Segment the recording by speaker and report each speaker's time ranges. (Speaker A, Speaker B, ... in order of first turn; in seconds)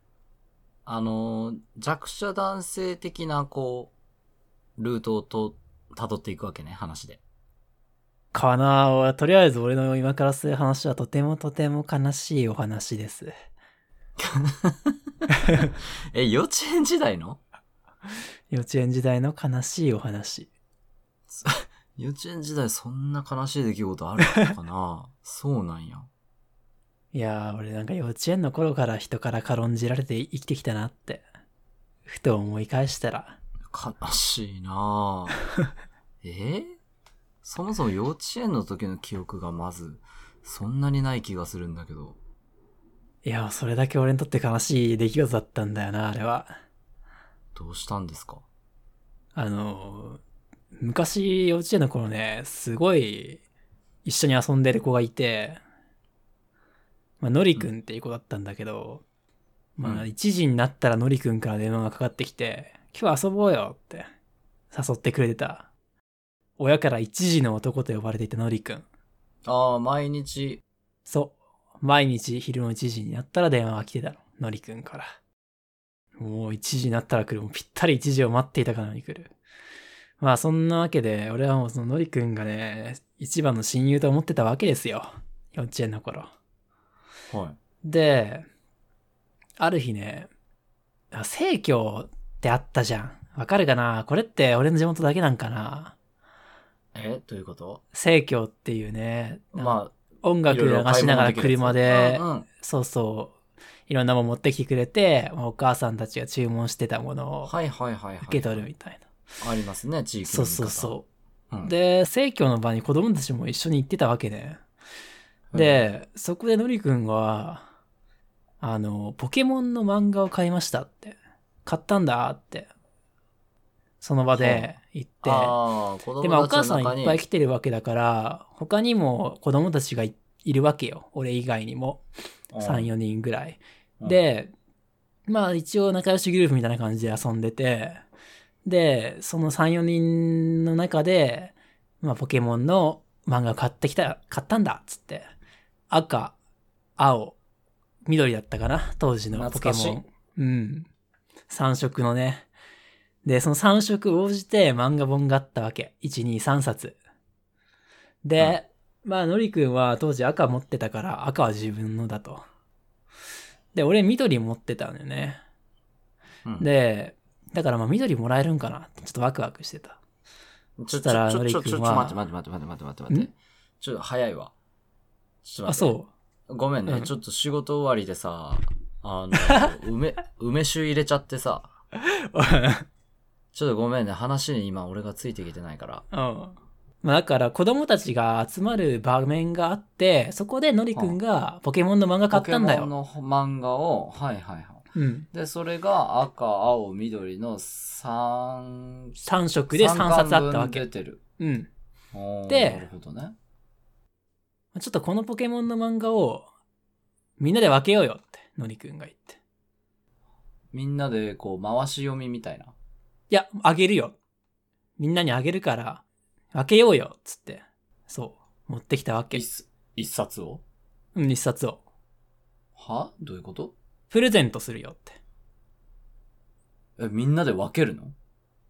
Speaker A: 0.8-3.9, 4.8-7.2, 14.2-17.4, 21.3-26.1, 33.7-35.4, 36.2-36.8, 37.4-42.2, 47.5-48.4, 59.8-60.1, 69.4-70.6, 87.3-87.6, 96.9-97.8, 99.5-100.0, 100.5-102.5, 107.5-108.7, 109.4-111.0, 115.5-115.8, 124.3-124.7, 125.2-127.2, 132.5-132.9, 149.3-150.0, 170.8-174.5, 175.4-175.9, 176.5-181.7, 183.5-186.0, 190.9-191.2, 192.3-199.2, 199.7-201.2, 202.1-203.3, 210.7-212.7, 219.3-220.6, 222.8-223.7, 227.0-228.1
Speaker B: 8.3-13.3, 18.5-20.5, 27.1-31.2, 32.0-33.4, 43.2-46.5, 49.3-50.2, 50.8-53.4, 54.0-55.6, 57.2-59.0, 59.8-64.1, 64.7-65.7, 66.6-68.8, 71.1-75.1, 76.2-79.3, 80.2-86.3, 87.8-88.5, 89.6-90.3, 91.1-95.9, 97.9-107.5, 108.2-109.0, 110.2-111.0, 111.6-114.6, 115.5-117.7, 118.6-122.7, 124.0-125.5, 126.2-132.0, 132.6-134.5, 135.3-138.0, 138.6-145.3, 145.9-146.3, 147.0-147.4, 148.1-150.9, 151.5-152.5, 153.2-157.0, 158.2-162.4, 163.7-165.4, 166.6-170.0, 170.9-172.2, 175.7-176.1, 179.4-179.7, 181.9-182.8, 186.1-192.9, 194.9-195.3, 199.2-200.8, 201.4-201.7, 202.5-202.8, 204.7-206.5, 207.4-209.4, 213.3-214.2, 215.0-219.4, 221.1-221.8, 224.1-225.2